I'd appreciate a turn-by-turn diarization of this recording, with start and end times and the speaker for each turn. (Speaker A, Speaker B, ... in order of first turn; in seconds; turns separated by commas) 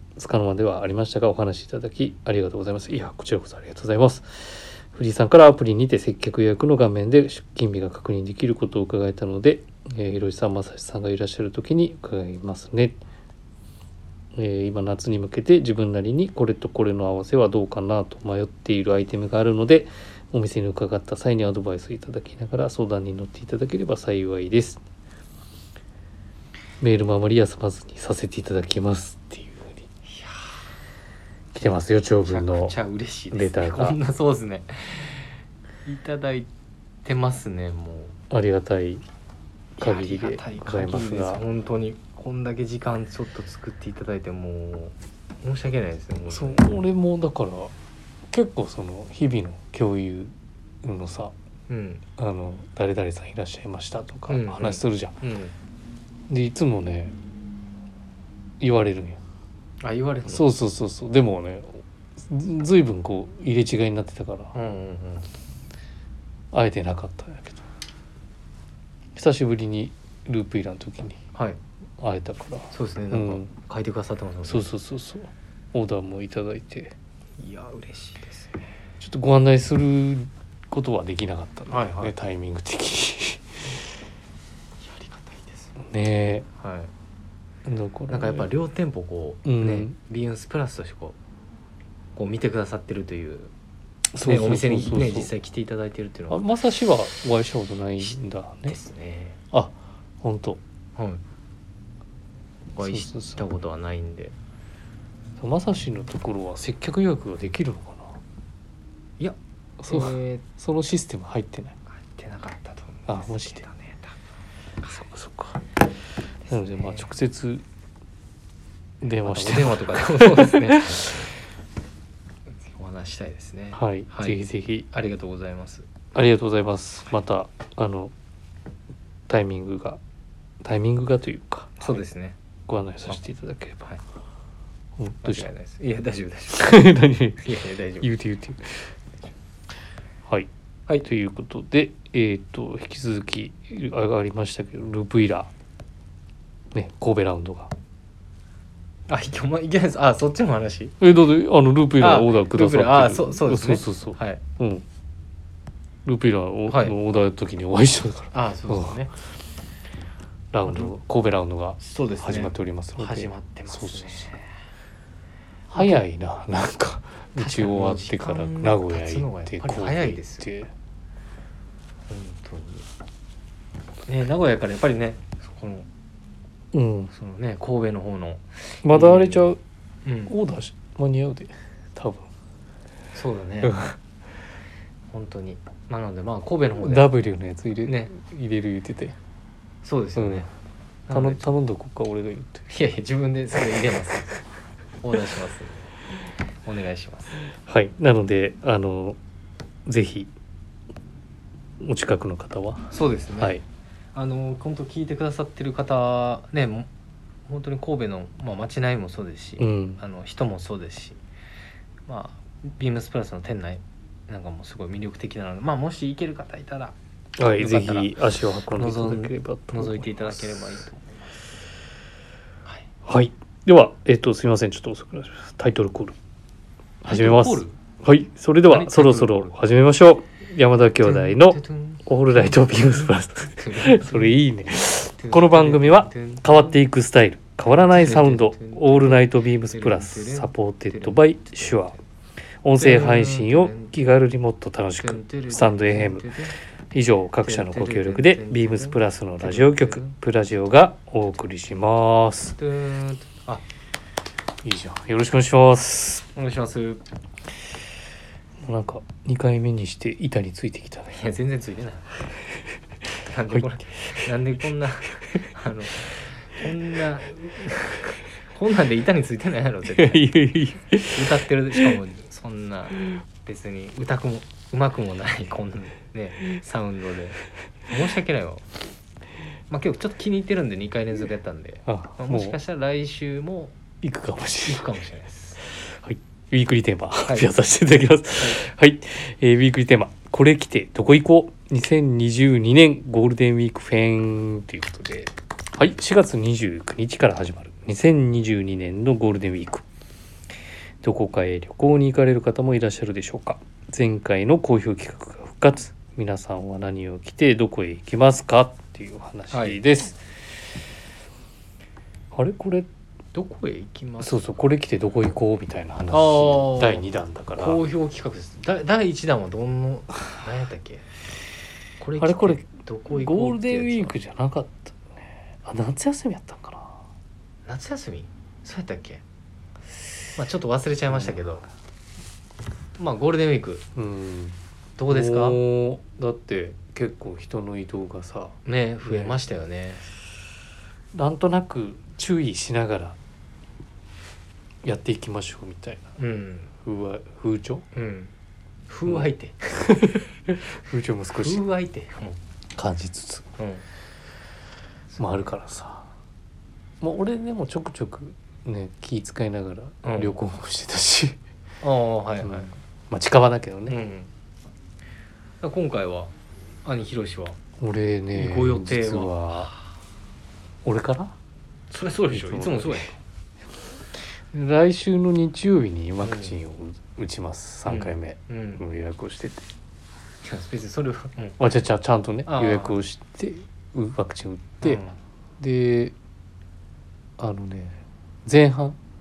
Speaker A: 0.1-13.0, Speaker A: 14.3-24.8, Speaker A: 26.8-29.8, Speaker B: 30.0-30.4, Speaker A: 31.5-32.8, Speaker B: 32.2-35.3, Speaker A: 33.3-34.0, Speaker B: 35.8-36.5, Speaker B: 37.0-38.1, Speaker A: 38.3-39.0, Speaker A: 39.8-41.4, Speaker B: 39.8-46.8, Speaker A: 46.3-47.7, Speaker A: 48.3-51.3, Speaker B: 51.7-52.0, Speaker A: 52.2-55.2, Speaker B: 54.3-55.5, Speaker A: 56.3-57.1, Speaker A: 58.6-59.2, Speaker B: 59.8-60.5, Speaker A: 60.3-64.5, Speaker B: 64.5-65.3, Speaker A: 66.5-67.6, Speaker A: 69.1-71.2, Speaker A: 72.0-73.5, Speaker B: 72.7-74.7, Speaker A: 74.5-76.9, Speaker B: 77.4-78.7, Speaker A: 79.0-83.9, Speaker B: 81.7-82.1, Speaker B: 84.8-85.8, Speaker A: 85.8-86.5, Speaker B: 86.6-86.9, Speaker A: 87.6-88.5, Speaker B: 88.1-91.2, Speaker A: 89.4-89.9, Speaker B: 92.2-93.5, Speaker A: 94.1-95.3, Speaker B: 94.2-96.5, Speaker A: 96.3-98.8, Speaker B: 98.0-99.4, Speaker A: 99.5-100.6, Speaker B: 101.0-101.2, Speaker B: 102.8-104.3, Speaker A: 102.8-103.4, Speaker A: 105.4-108.2, Speaker B: 109.2-110.4, Speaker A: 109.8-111.8, Speaker B: 111.9-114.2, Speaker A: 113.1-113.6, Speaker A: 114.8-115.6, Speaker B: 116.4-117.1, Speaker A: 116.5-117.6, Speaker A: 119.0-121.2, Speaker B: 119.2-121.2, Speaker B: 122.6-124.4, Speaker A: 123.7-124.9, Speaker B: 124.9-125.8, Speaker A: 126.1-128.1, Speaker A: 129.3-130.0, Speaker A: 130.6-132.0, Speaker B: 131.8-132.4, Speaker A: 132.7-133.9, Speaker A: 135.0-135.5, Speaker B: 135.2-136.8, Speaker A: 136.5-137.5, Speaker B: 137.4-138.1, Speaker A: 138.0-138.9, Speaker A: 141.0-145.5, Speaker A: 146.7-147.7, Speaker B: 149.1-150.9, Speaker A: 151.0-154.8, Speaker B: 152.0-154.4, Speaker A: 156.0-159.0, Speaker B: 156.7-156.9, Speaker B: 158.3-159.1, Speaker A: 160.5-164.3, Speaker B: 160.6-160.9, Speaker B: 161.8-164.5, Speaker B: 165.7-166.0, Speaker A: 165.7-170.7, Speaker B: 167.4-170.5, Speaker B: 172.1-172.8, Speaker B: 174.1-175.9, Speaker A: 176.7-177.1, Speaker B: 177.1-179.5, Speaker A: 178.8-179.6, Speaker B: 180.0-180.3, Speaker A: 180.3-182.3, Speaker B: 183.1-183.9, Speaker A: 183.6-183.9, Speaker B: 185.1-187.1, Speaker A: 186.8-189.2, Speaker B: 187.8-188.1, Speaker B: 189.8-190.5, Speaker A: 190.2-190.5, Speaker B: 191.1-191.5, Speaker A: 191.1-192.6, Speaker B: 192.7-194.3, Speaker B: 195.0-195.9, Speaker B: 196.6-197.4, Speaker A: 197.6-199.2, Speaker A: 199.8-200.3, Speaker A: 201.8-203.6, Speaker B: 202.9-203.6, Speaker B: 204.1-206.9, Speaker B: 207.5-211.2, Speaker A: 209.6-210.0, Speaker B: 212.1-216.9, Speaker A: 217.4-220.7, Speaker B: 217.4-218.2, Speaker B: 218.7-221.5, Speaker A: 223.1-226.2, Speaker A: 227.0-241.9, Speaker B: 227.1-227.8, Speaker B: 228.7-229.6, Speaker B: 231.0-234.3, Speaker B: 235.2-236.7, Speaker B: 237.7-242.0, Speaker A: 242.6-246.3, Speaker B: 242.8-243.9, Speaker B: 245.0-246.6, Speaker A: 246.9-252.6, Speaker B: 247.4-250.2, Speaker B: 252.6-253.6, Speaker A: 254.6-256.3, Speaker B: 256.3-257.0, Speaker A: 258.6-261.2, Speaker B: 261.1-262.2, Speaker B: 263.2-270.3, Speaker A: 270.0-271.2, Speaker B: 271.1-278.6, Speaker B: 279.7-283.8, Speaker A: 281.9-282.6, Speaker A: 284.0-284.9, Speaker B: 284.6-285.6, Speaker A: 285.6-299.8, Speaker A: 301.0-310.2, Speaker B: 309.5-309.8, Speaker A: 312.3-312.9, Speaker B: 313.3-314.5, Speaker A: 314.2-317.8, Speaker B: 316.1-317.0, Speaker B: 317.6-321.1, Speaker B: 322.0-324.1, Speaker A: 322.2-327.0, Speaker B: 327.7-329.2, Speaker B: 330.4-331.6, Speaker A: 331.1-331.4, Speaker B: 333.0-333.9, Speaker A: 333.9-339.4, Speaker B: 335.0-335.6, Speaker B: 338.6-340.1, Speaker A: 341.1-343.2, Speaker A: 344.8-346.1, Speaker B: 346.2-346.7, Speaker A: 346.8-347.9, Speaker B: 347.9-348.3, Speaker B: 348.9-349.6, Speaker A: 349.1-351.6, Speaker B: 351.4-352.4, Speaker A: 352.8-353.5, Speaker B: 353.6-353.8, Speaker B: 355.1-355.5, Speaker A: 355.2-356.1, Speaker A: 357.0-361.4, Speaker B: 360.0-360.4, Speaker B: 361.8-362.7, Speaker A: 362.4-364.0, Speaker B: 363.9-364.3, Speaker B: 365.6-366.3, Speaker B: 366.8-367.6, Speaker A: 367.8-369.7, Speaker B: 368.3-369.8, Speaker A: 370.8-371.4, Speaker B: 371.9-373.2, Speaker A: 372.3-373.1, Speaker A: 374.5-379.6, Speaker B: 376.2-376.6, Speaker B: 377.9-378.8, Speaker B: 380.4-381.6, Speaker A: 381.6-385.0, Speaker B: 382.5-383.0, Speaker B: 384.8-385.2, Speaker A: 385.6-386.1, Speaker A: 387.4-389.0